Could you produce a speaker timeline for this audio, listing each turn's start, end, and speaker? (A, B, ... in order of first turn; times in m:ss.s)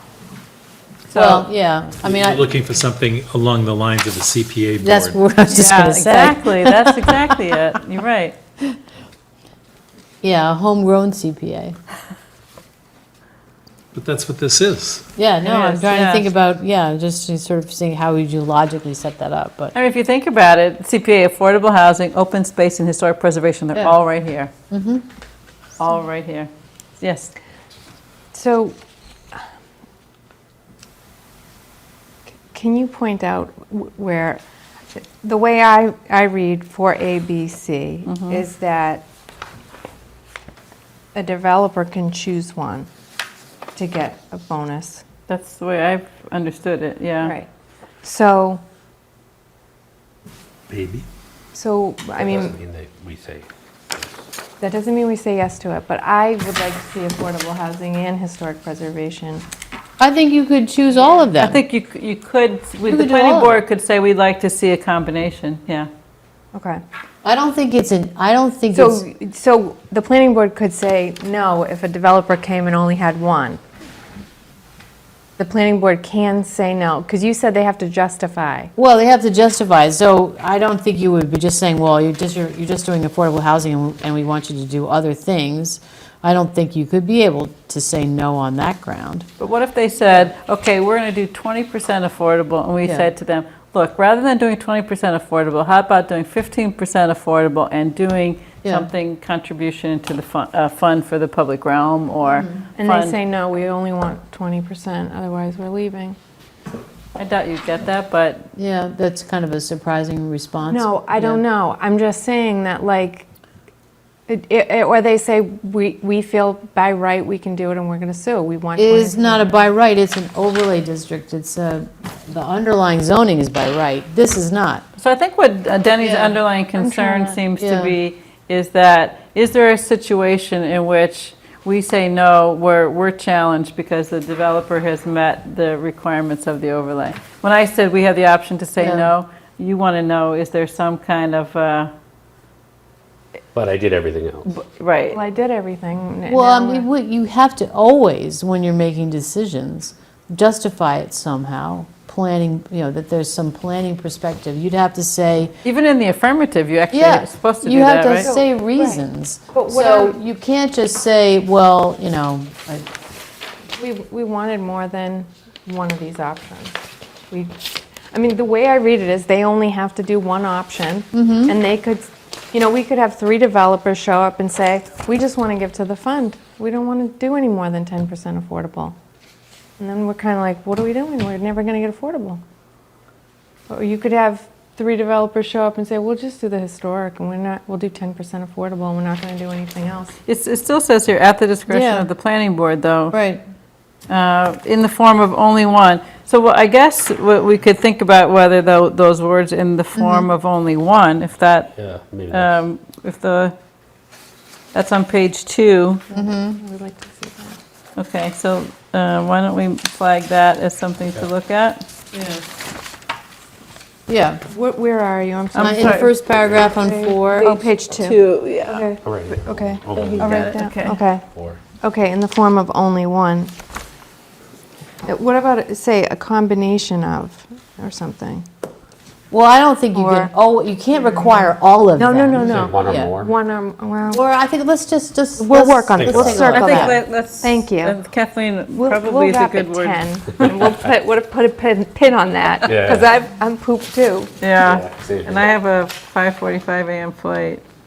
0:01.1-0:02.5 A
0:01.1-0:01.5 B
0:02.0-0:05.2 C
0:04.8-0:07.3 A
0:05.5-0:08.4 B
0:10.2-0:11.8 A
0:13.9-0:15.1 C
0:15.2-0:19.8 A
0:15.4-0:16.3 B
0:19.8-0:24.5 B
0:24.7-0:25.0 A
0:25.8-0:27.3 B
0:28.3-0:28.8 D
0:32.5-0:34.4 D
0:35.0-0:39.0 D
0:38.1-0:38.4 B
0:41.2-0:42.9 D
0:43.8-0:45.0 D
0:45.3-0:47.4 B
0:48.0-0:48.6 D
0:50.7-0:51.1 E
0:51.5-0:52.6 D
0:52.2-0:53.5 E
0:54.6-0:59.4 D
1:00.0-1:01.6 A
1:01.4-1:05.9 B
1:02.9-1:03.6 A
1:06.5-1:06.8 D
1:07.2-1:09.0 A
1:08.7-1:13.6 D
1:15.4-1:18.7 D
1:18.8-1:29.3 A
1:29.4-1:43.2 B
1:42.2-1:42.6 A
1:42.8-1:46.2 D
1:47.2-1:48.5 B
1:48.6-1:51.4 A
1:50.7-1:53.3 D
1:54.3-1:59.5 D
1:58.8-2:04.8 A
2:05.0-2:21.9 B
2:06.0-2:06.4 A
2:06.8-2:07.4 D
2:07.6-2:08.0 A
2:18.8-2:19.1 A
2:23.5-2:24.5 E
2:24.5-2:25.2 B
2:25.1-2:26.9 D
2:26.3-2:35.5 A
2:35.6-2:38.3 B
2:36.9-2:42.9 A
2:38.2-2:40.2 D
2:43.8-2:59.0 D
2:51.1-2:51.6 A
2:59.8-3:02.4 D
3:03.7-3:10.1 D
3:10.3-3:13.2 B
3:11.7-3:12.1 A
3:13.1-3:13.4 A
3:14.1-3:21.7 B
3:20.0-3:20.3 A
3:21.8-3:22.6 E
3:22.3-3:23.5 B
3:24.7-3:26.0 B
3:26.1-3:27.6 D
3:26.1-3:26.6 A
3:28.0-3:32.4 B
3:34.1-3:34.4 A
3:34.5-3:43.5 D
3:35.5-3:36.1 B
3:35.6-3:37.5 A
3:36.3-3:36.7 E
3:37.4-3:38.9 B
3:39.0-3:40.6 E
3:39.9-3:41.0 B
3:41.3-3:41.6 E
3:45.1-3:48.4 D
3:49.3-3:53.1 A
3:50.0-3:50.3 D
3:50.9-3:54.2 D
3:52.4-3:53.3 E
3:54.1-3:57.0 A
3:55.4-3:58.0 D
3:56.0-3:56.6 E
3:56.5-4:00.5 B
3:58.8-4:04.3 D
4:02.6-4:03.1 E
4:04.4-4:07.6 B
4:04.6-4:05.5 E